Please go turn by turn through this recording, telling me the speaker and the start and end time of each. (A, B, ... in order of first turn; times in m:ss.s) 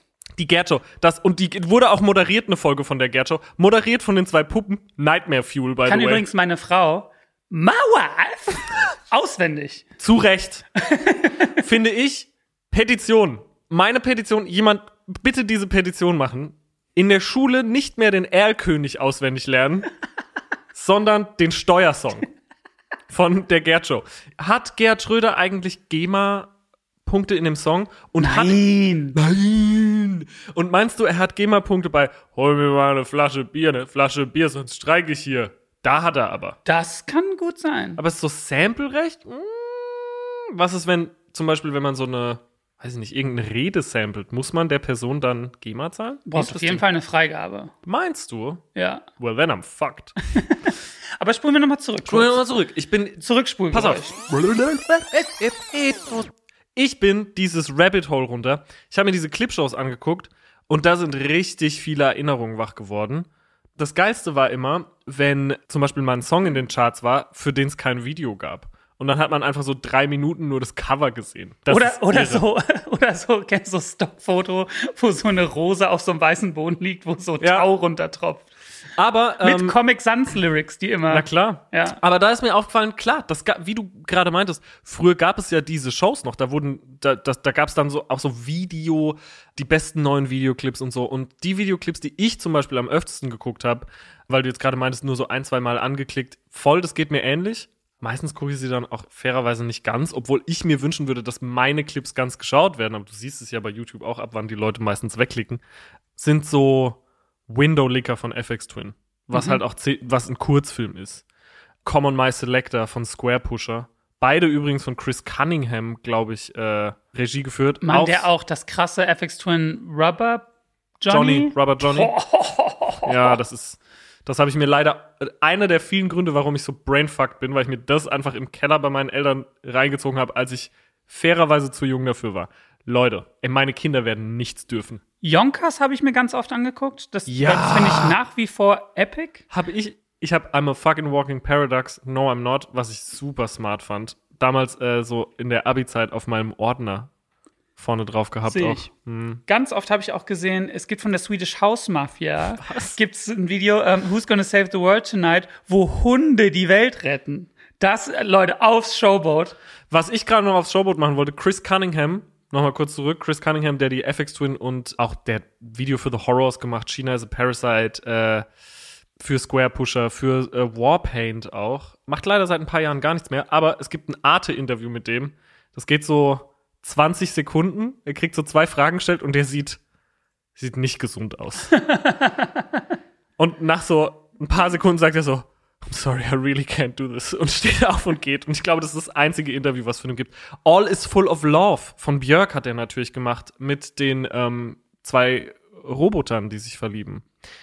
0:00.4-0:06.2 A
0:05.8-0:09.9 B
0:10.0-0:10.6 A
0:10.8-0:11.5 B
0:11.6-0:19.9 A
0:20.7-0:22.3 A
0:23.1-0:26.5 A
0:27.0-0:36.6 A
0:28.2-0:29.2 B
0:36.6-0:38.0 B
0:38.0-0:46.8 A
0:46.3-0:47.7 B
0:47.8-0:48.6 A
0:48.7-0:49.0 B
0:49.2-0:50.1 A
0:50.4-0:52.4 B
0:52.1-1:12.4 A
0:53.2-0:54.1 B
1:11.7-1:18.5 B
1:17.4-1:17.6 A
1:19.0-1:19.8 A
1:19.4-1:22.0 B
1:21.1-1:45.6 A
1:46.2-1:51.2 A
1:49.3-1:49.6 B
1:51.8-1:58.3 A
1:57.8-2:00.4 B
2:01.0-2:03.4 B
2:01.1-2:02.1 A
2:03.0-2:15.0 A
2:15.2-2:19.4 B
2:17.3-2:18.2 A
2:19.5-2:27.1 A
2:27.8-2:29.4 A
2:28.4-2:28.9 B
2:29.4-2:39.6 B
2:32.6-2:33.0 A
2:39.9-2:48.4 A
2:49.2-2:59.8 A
3:00.6-3:01.8 A
3:01.8-3:02.4 B
3:03.4-3:17.2 A